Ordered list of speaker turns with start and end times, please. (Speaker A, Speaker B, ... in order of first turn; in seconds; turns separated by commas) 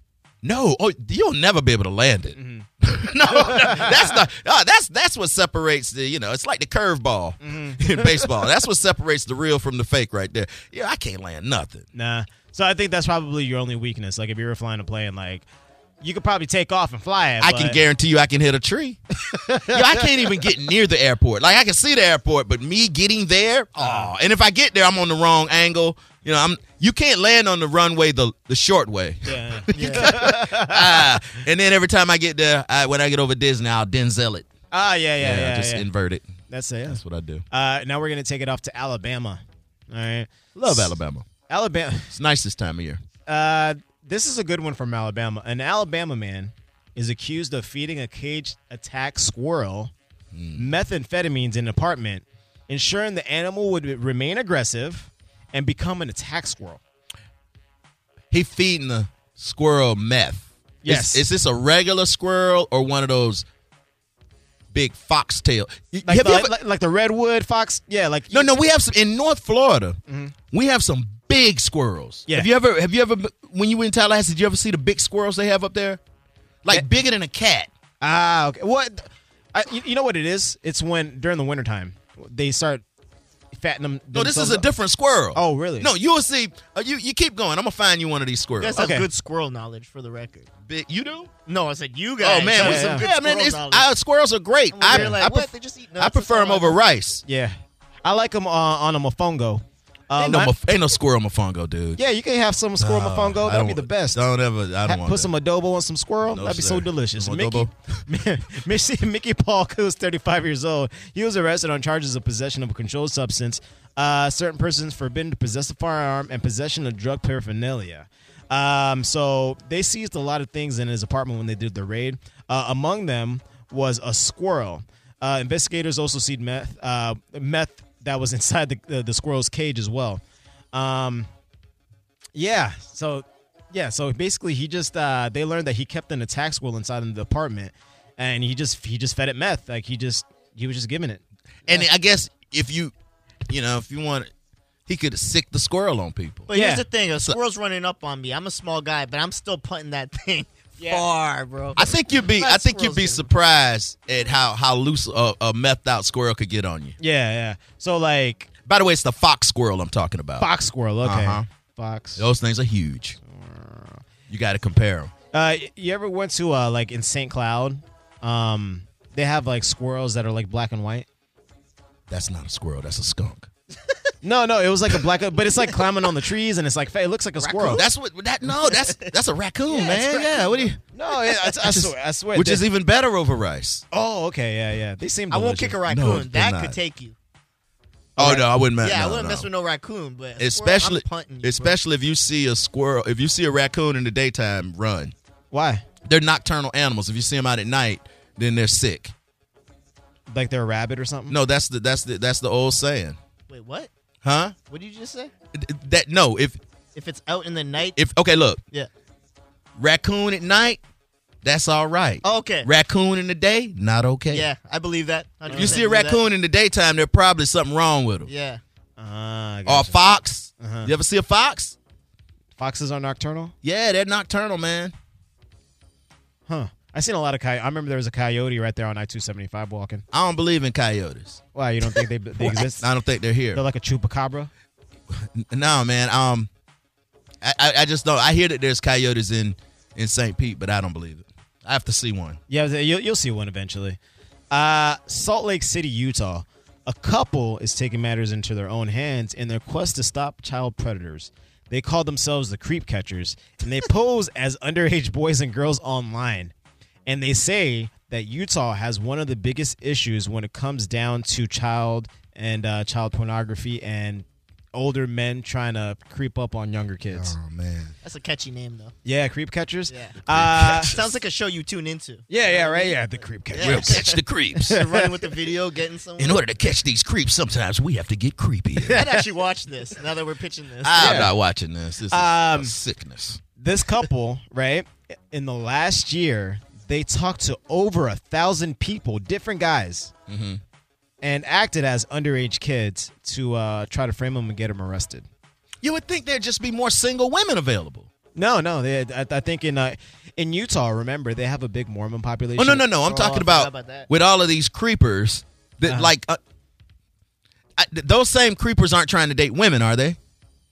Speaker A: 0.4-11.8, Speaker B: 2.3-2.7, Speaker B: 3.3-4.2, Speaker B: 7.4-8.3, Speaker B: 11.9-15.4, Speaker B: 16.0-17.8, Speaker A: 17.4-19.0, Speaker B: 19.3-20.2, Speaker A: 19.7-34.5, Speaker B: 23.8-24.1, Speaker B: 29.2-31.1, Speaker C: 29.7-30.1, Speaker B: 34.7-35.9, Speaker A: 35.2-36.3, Speaker B: 36.5-37.0, Speaker A: 36.9-37.4, Speaker B: 37.5-40.9, Speaker A: 40.5-41.2, Speaker B: 41.5-42.1, Speaker A: 42.1-43.0, Speaker B: 43.2-49.9, Speaker A: 50.3-50.7, Speaker B: 50.5-56.8, Speaker A: 58.3-63.5, Speaker B: 60.8-61.2, Speaker A: 64.7-66.5, Speaker B: 66.0-68.5, Speaker A: 68.3-70.0, Speaker B: 70.1-70.3, Speaker A: 70.5-76.0, Speaker A: 76.6-77.7, Speaker B: 78.0-82.8, Speaker B: 83.5-84.7, Speaker A: 84.1-88.9, Speaker B: 85.3-85.9, Speaker C: 88.6-90.5, Speaker B: 88.8-89.1, Speaker A: 90.6-91.3, Speaker C: 91.5-93.9, Speaker A: 92.2-97.2, Speaker B: 92.5-93.0, Speaker C: 94.7-96.8, Speaker B: 94.9-95.2, Speaker B: 97.2-100.5, Speaker A: 100.2-102.0, Speaker B: 102.0-104.2, Speaker A: 102.8-105.3, Speaker B: 104.8-130.2, Speaker A: 106.2-107.7, Speaker B: 130.7-131.3, Speaker B: 132.3-141.8, Speaker A: 141.7-142.9, Speaker A: 143.5-144.3, Speaker A: 144.9-146.5, Speaker C: 146.5-153.3, Speaker B: 146.5-146.8, Speaker B: 150.8-151.0, Speaker A: 151.8-156.9, Speaker B: 157.0-158.5, Speaker A: 158.7-160.5, Speaker B: 160.4-162.3, Speaker A: 161.0-161.4, Speaker A: 162.2-163.2, Speaker B: 163.3-164.0, Speaker A: 164.3-165.1, Speaker B: 165.3-171.1, Speaker A: 172.1-173.5, Speaker B: 174.2-177.8, Speaker C: 177.4-177.8, Speaker A: 177.6-180.8, Speaker C: 178.5-179.1, Speaker C: 179.7-180.7, Speaker B: 180.9-182.6, Speaker A: 181.4-183.8, Speaker B: 183.9-185.8, Speaker C: 185.3-187.1, Speaker A: 185.9-186.8, Speaker B: 188.2-188.5, Speaker A: 188.2-189.5, Speaker C: 188.8-191.8, Speaker A: 190.4-195.1, Speaker B: 195.5-195.8, Speaker A: 196.0-199.1, Speaker B: 200.3-201.4, Speaker A: 201.3-203.2, Speaker C: 203.5-203.9, Speaker A: 204.2-204.5, Speaker C: 204.7-205.3, Speaker A: 205.5-206.6, Speaker C: 206.9-208.0, Speaker A: 207.9-208.6, Speaker A: 209.8-210.8, Speaker A: 211.4-214.5, Speaker C: 212.2-212.7, Speaker C: 214.3-216.2, Speaker B: 215.5-215.8, Speaker A: 215.5-218.3, Speaker C: 218.2-218.6, Speaker B: 219.0-220.0, Speaker A: 219.7-221.7, Speaker B: 220.6-220.9, Speaker B: 222.6-223.5, Speaker A: 223.6-224.9, Speaker B: 226.5-230.0, Speaker A: 230.1-231.4, Speaker B: 231.5-232.8, Speaker A: 232.4-233.6, Speaker B: 233.5-234.5, Speaker A: 235.1-236.5, Speaker A: 237.4-242.4, Speaker B: 242.5-244.0, Speaker B: 244.5-256.5, Speaker B: 257.1-267.3, Speaker A: 267.1-267.9, Speaker C: 268.0-268.9, Speaker B: 269.0-270.9, Speaker C: 269.9-276.4, Speaker A: 270.3-271.1, Speaker B: 272.3-274.0, Speaker A: 273.6-274.8, Speaker B: 274.6-275.1, Speaker A: 276.2-279.0, Speaker B: 278.8-279.1, Speaker C: 278.9-281.3, Speaker A: 280.8-283.4, Speaker B: 281.0-281.3, Speaker B: 282.1-282.8, Speaker B: 283.6-290.1, Speaker A: 290.3-290.6, Speaker B: 291.2-295.2, Speaker A: 295.8-298.1, Speaker B: 298.4-302.9, Speaker A: 302.6-306.4, Speaker C: 303.0-304.1, Speaker B: 305.9-306.1, Speaker A: 307.8-310.2